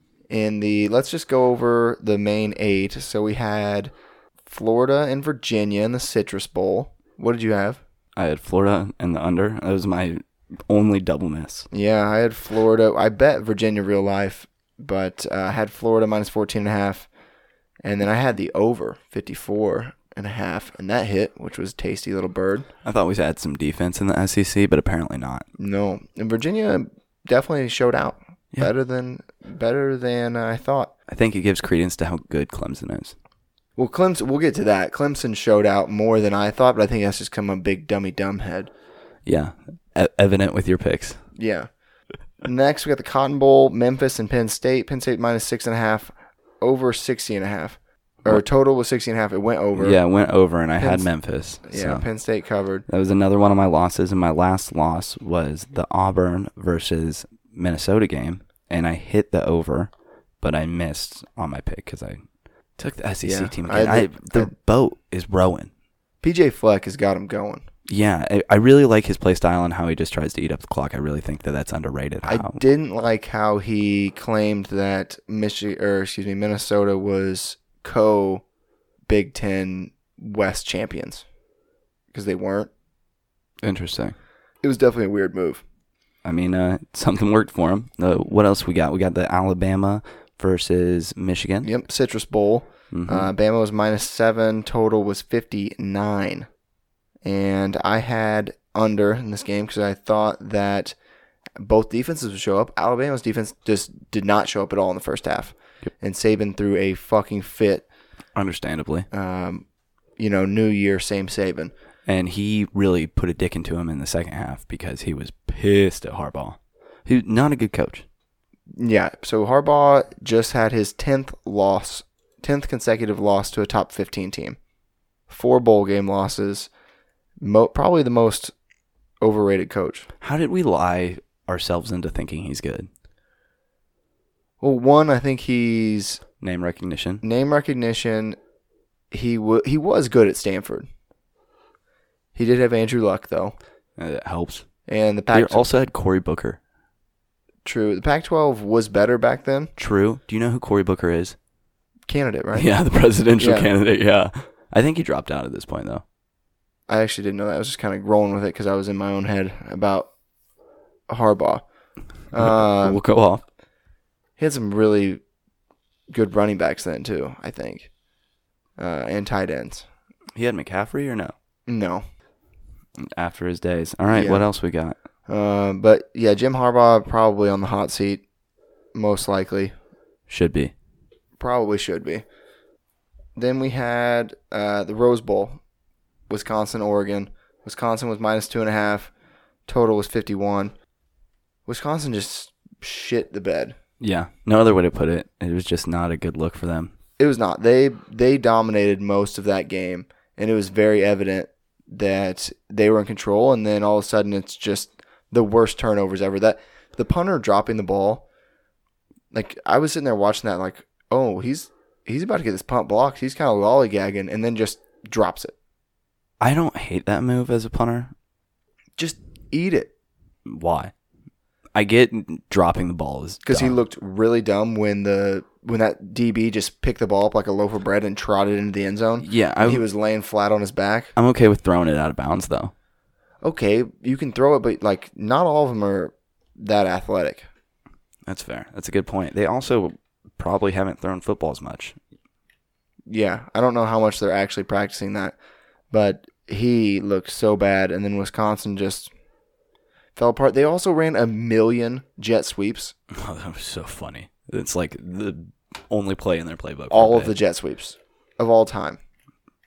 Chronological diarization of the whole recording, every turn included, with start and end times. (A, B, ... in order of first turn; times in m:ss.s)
0:00.3-0:03.9 A
0:04.4-0:07.8 A
0:08.2-0:11.7 B
0:11.7-0:17.1 A
0:17.8-0:22.7 A
0:22.8-0:25.4 B
0:25.6-0:30.9 A
0:31.1-0:33.1 B
0:33.8-0:38.7 A
0:39.2-0:41.2 B
0:41.4-0:41.7 A
0:42.4-0:50.0 A
0:49.7-0:52.0 B
0:50.8-0:51.1 A
0:51.6-0:52.8 A
0:52.9-0:59.9 B
1:00.4-1:02.2 B
1:02.8-1:05.7 B
1:03.2-1:04.5 A
1:06.2-1:07.6 A
1:07.9-1:12.6 B
1:12.2-1:18.4 A
1:19.1-1:21.2 A
1:22.1-1:22.7 A
1:23.6-1:24.1 B
1:24.6-1:25.6 A
1:26.2-1:31.7 B
1:31.6-1:36.5 A
1:32.9-1:33.3 B
1:37.2-1:40.9 A
1:41.6-1:47.8 A
1:48.3-1:49.1 B
1:49.1-1:49.6 A
1:50.2-1:51.7 A
1:52.0-1:58.0 B
1:58.7-2:04.6 A
2:05.3-2:06.7 A
2:07.4-2:08.5 A
2:09.2-2:10.1 A
2:10.2-2:12.9 B
2:14.6-2:16.2 A
2:16.4-2:17.2 B
2:17.2-2:18.4 A
2:19.1-2:20.9 A
2:22.3-2:23.6 A
2:24.0-2:24.6 B
2:24.9-2:25.7 A
2:25.3-2:26.6 B
2:27.6-2:29.7 A
2:29.8-2:31.4 B
2:32.1-2:32.7 A
2:32.5-2:36.0 B
2:33.4-2:33.7 A
2:36.9-2:40.1 A
2:41.1-2:41.6 A
2:42.3-2:43.0 A
2:42.4-2:43.4 B
2:44.4-2:45.2 A
2:46.1-2:47.9 A
2:48.8-2:49.8 A
2:50.3-2:51.3 B
2:51.7-2:52.0 A
2:53.0-2:55.0 B
2:54.1-2:54.4 A
2:55.3-2:58.2 A
2:58.9-2:59.7 A
3:00.3-3:00.7 B
3:01.4-3:02.2 A
3:03.4-3:05.6 A
3:06.3-3:09.1 A
3:09.7-3:10.7 A
3:11.6-3:13.7 A
3:14.0-3:16.9 B
3:17.2-3:28.2 A
3:29.3-3:35.5 A
3:36.4-3:38.1 B
3:39.0-3:39.9 A
3:40.4-3:40.9 B
3:41.7-3:43.8 B
3:43.4-3:51.1 A
3:49.2-3:49.8 B
3:51.2-3:52.7 B
3:53.4-3:57.5 A
3:58.2-4:02.0 B
4:03.1-4:05.3 A
4:05.9-4:09.1 A
4:10.2-4:12.9 A
4:13.1-4:17.3 B
4:16.9-4:19.0 A